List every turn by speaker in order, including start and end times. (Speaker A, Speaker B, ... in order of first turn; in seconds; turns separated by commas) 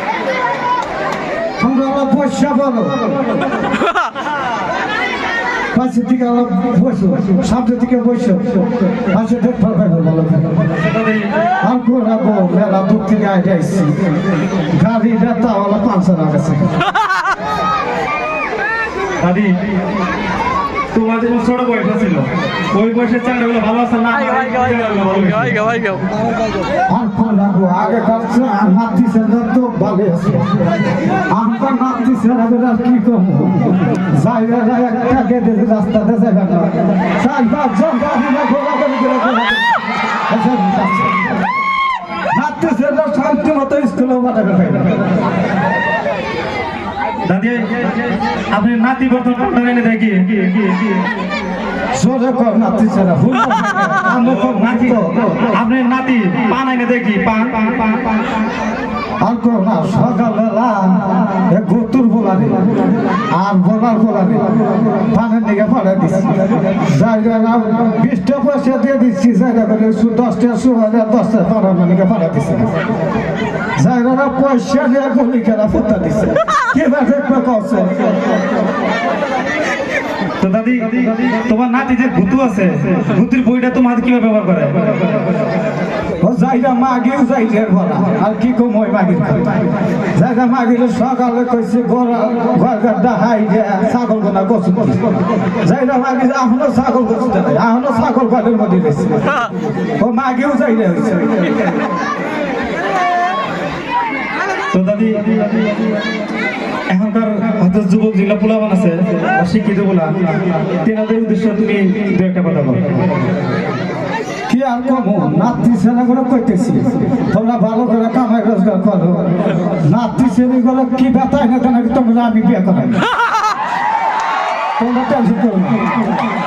Speaker A: 1.6-3.0, Speaker A: 5.7-10.7, Speaker B: 10.8-11.3, Speaker A: 11.6-14.0, Speaker A: 14.7-16.7, Speaker B: 19.2-19.5, Speaker B: 20.9-25.9, Speaker A: 26.9-30.6, Speaker A: 31.3-39.6, Speaker A: 40.3-41.2, Speaker A: 42.3-45.0, Speaker B: 47.2-47.8, Speaker B: 48.5-50.7, Speaker A: 51.9-55.4, Speaker B: 54.1-58.0, Speaker A: 59.2-62.6, Speaker A: 63.3-72.7, Speaker A: 73.8-78.1, Speaker B: 80.4-85.0, Speaker A: 86.2-89.6, Speaker A: 90.1-95.0, Speaker A: 95.6-99.4, Speaker A: 100.0-101.4, Speaker B: 104.7-105.3, Speaker B: 106.9-113.0, Speaker A: 114.5-123.0, Speaker A: 124.8-125.8